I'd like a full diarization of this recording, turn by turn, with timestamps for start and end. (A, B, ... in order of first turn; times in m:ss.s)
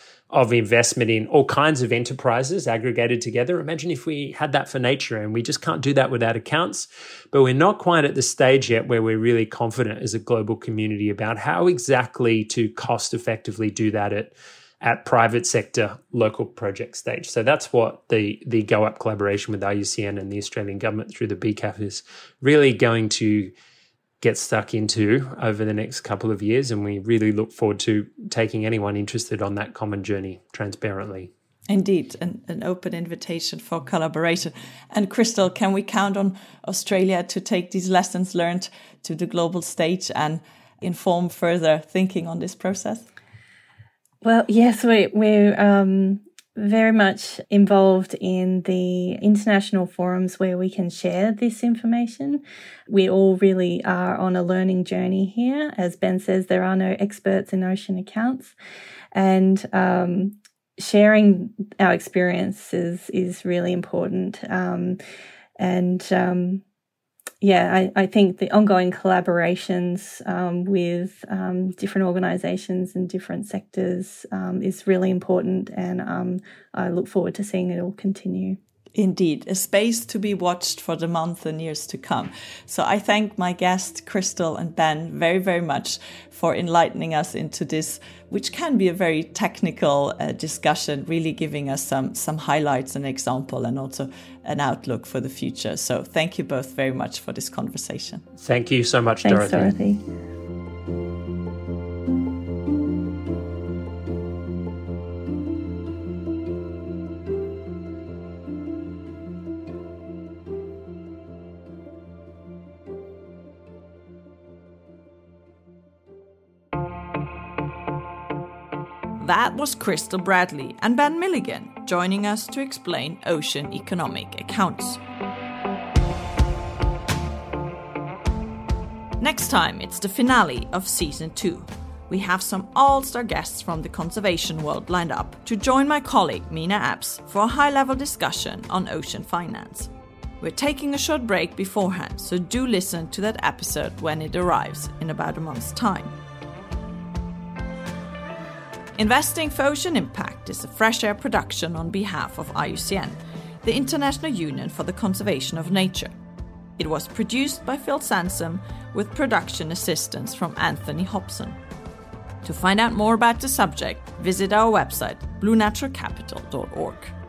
0:00.3-0:23.5 A
0:24.2-0:31.3 A
0:31.7-0:43.1 B
0:44.2-0:58.6 C
0:59.1-1:05.0 C
1:05.6-1:06.6 C
1:07.4-1:18.6 C
1:19.0-1:38.3 B
1:38.4-1:39.7 A
1:39.2-1:40.0 C
1:59.2-2:05.0 B
2:09.2-2:26.2 B
2:29.0-2:36.1 B
2:36.8-2:41.6 B
2:42.4-2:47.2 B